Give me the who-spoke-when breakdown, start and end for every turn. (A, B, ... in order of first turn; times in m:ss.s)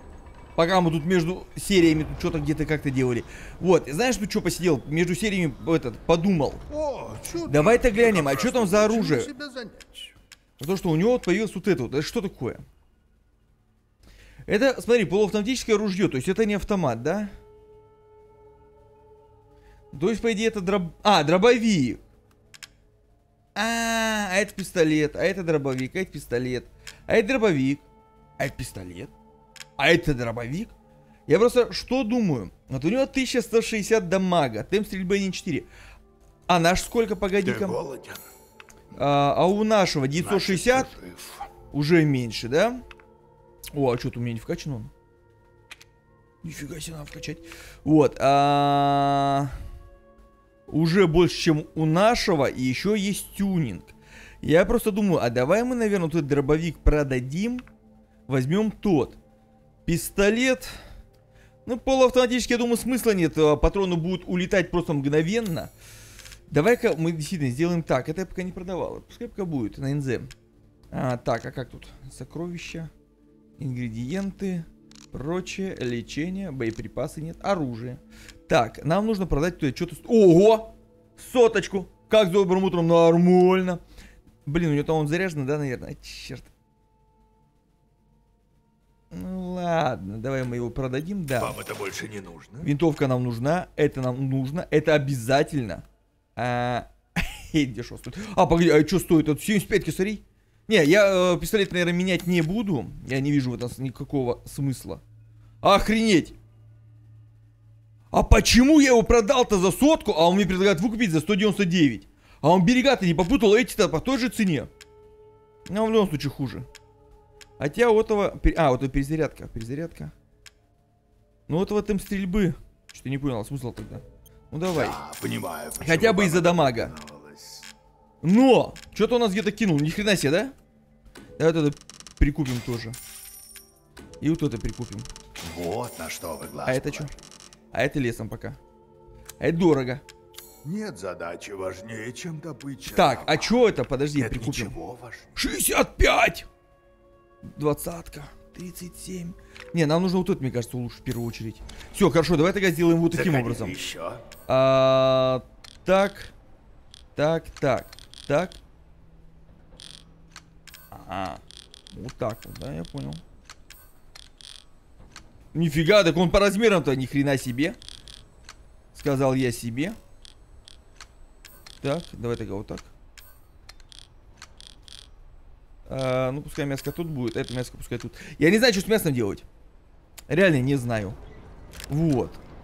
0:00.6-0:06.6 A
0:06.7-0:10.2 B
0:07.5-0:09.3 A
0:10.6-0:12.6 A
0:14.5-0:17.3 A
0:19.9-0:22.0 A
0:23.6-0:27.8 A
0:28.4-0:29.1 A
0:29.8-0:30.7 A
0:31.3-0:35.7 A
0:36.5-0:37.8 A
0:37.4-0:38.3 B
0:38.9-0:40.9 A
0:40.2-0:41.5 B
0:41.7-0:42.8 A
0:43.7-0:44.9 A
0:46.4-0:49.5 A
0:50.7-0:57.6 A
0:58.3-0:59.2 A
0:59.9-1:00.8 A
1:01.6-1:05.7 A
1:06.5-1:10.3 A
1:10.9-1:12.9 A
1:13.6-1:23.8 A
1:24.5-1:26.5 A
1:29.1-1:31.6 A
1:31.4-1:32.7 B
1:32.6-1:35.8 A
1:36.4-1:45.0 A
1:45.6-1:46.4 A
1:48.1-1:54.7 A
1:55.7-1:56.7 A
1:57.6-2:00.1 A
2:01.5-2:05.0 A
2:04.7-2:07.7 B
2:05.8-2:06.9 A
2:08.2-2:10.5 A
2:11.4-2:13.0 A
2:14.2-2:15.1 A
2:15.4-2:17.1 B
2:16.6-2:17.1 A
2:17.7-2:18.6 A
2:19.4-2:20.0 A
2:20.6-2:23.6 B
2:22.9-2:24.8 A
2:24.2-2:25.4 B
2:25.4-2:26.5 A
2:27.4-2:33.8 A
2:33.1-2:34.2 B
2:34.5-2:36.3 A
2:37.2-2:38.6 A
2:40.9-2:43.2 A
2:45.5-2:47.8 A
2:48.9-2:50.0 A
2:51.8-2:52.9 A
2:55.9-2:59.4 A
3:00.3-3:01.2 A
3:01.9-3:02.4 A